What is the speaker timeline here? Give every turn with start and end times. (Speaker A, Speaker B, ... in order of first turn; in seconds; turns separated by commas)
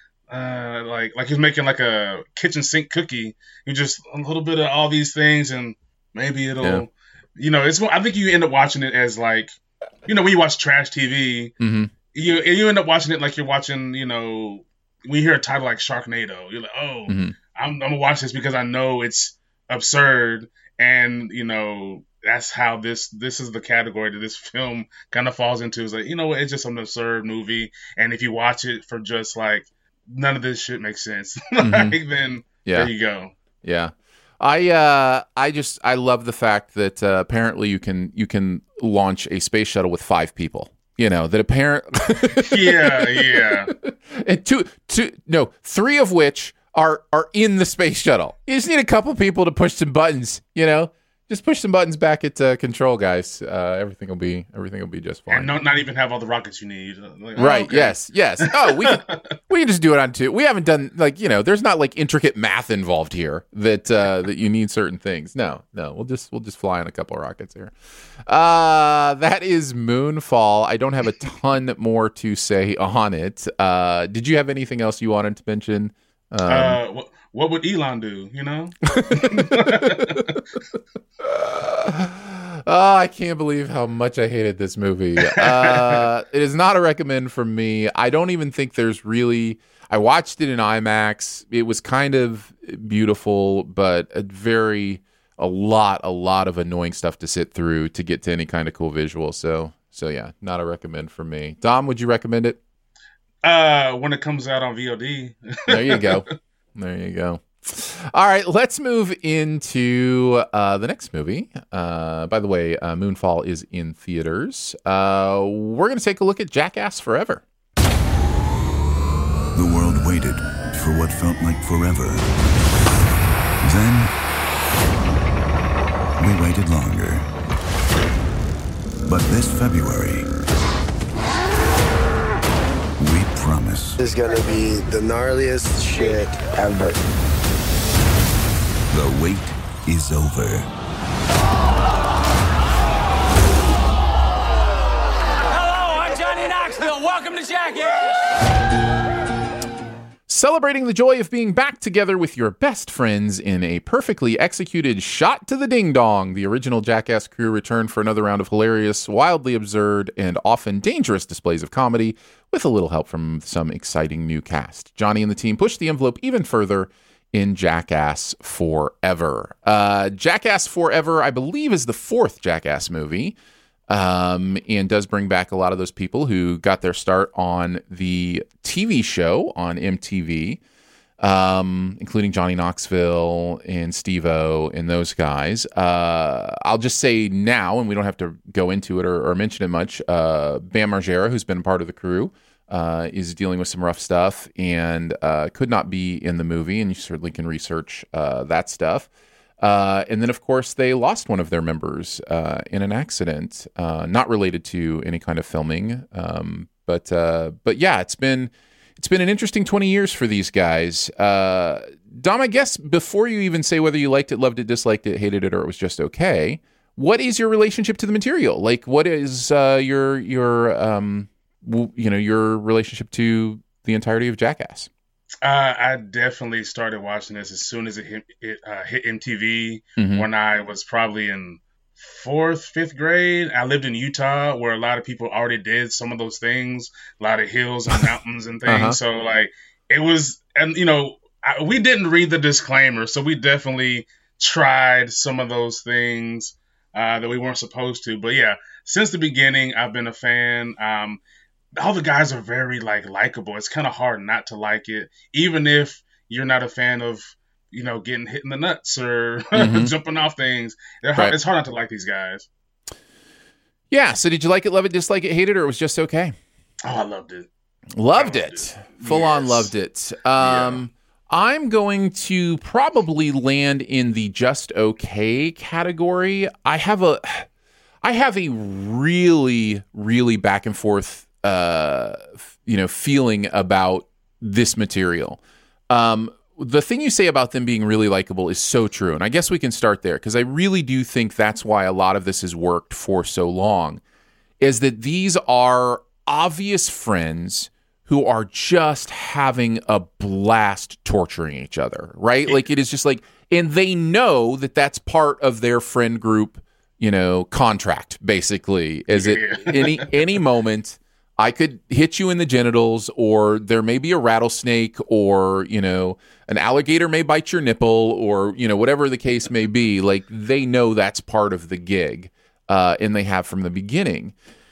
Speaker A: 0.3-9.5, Speaker A: 10.1-11.5, Speaker B: 11.6-11.9, Speaker A: 12.1-33.3, Speaker B: 17.1-17.4, Speaker B: 31.6-32.0, Speaker B: 32.6-32.9, Speaker B: 33.6-55.5, Speaker A: 42.4-43.7, Speaker A: 55.3-59.1, Speaker B: 57.4-67.7, Speaker B: 68.3-76.8, Speaker A: 76.5-80.4, Speaker B: 78.9-80.3, Speaker B: 81.2-102.6, Speaker A: 85.3-86.0, Speaker A: 103.4-106.2, Speaker B: 105.7-117.4, Speaker C: 119.5-122.3, Speaker C: 123.6-124.1, Speaker C: 126.2-127.3, Speaker C: 129.0-130.3, Speaker C: 133.0-134.0, Speaker D: 134.0-137.0, Speaker C: 138.9-140.7, Speaker E: 145.5-148.3, Speaker B: 150.3-173.4, Speaker B: 173.9-180.6, Speaker B: 181.2-199.1, Speaker B: 199.6-224.9, Speaker A: 225.4-251.2, Speaker B: 230.0-230.3, Speaker B: 238.7-239.0, Speaker A: 251.8-262.5, Speaker B: 259.6-259.9, Speaker B: 263.9-266.4, Speaker A: 266.8-267.5, Speaker B: 267.9-277.5, Speaker A: 268.1-269.7, Speaker A: 270.4-270.8, Speaker B: 278.0-294.0, Speaker B: 294.6-324.3, Speaker A: 309.1-310.2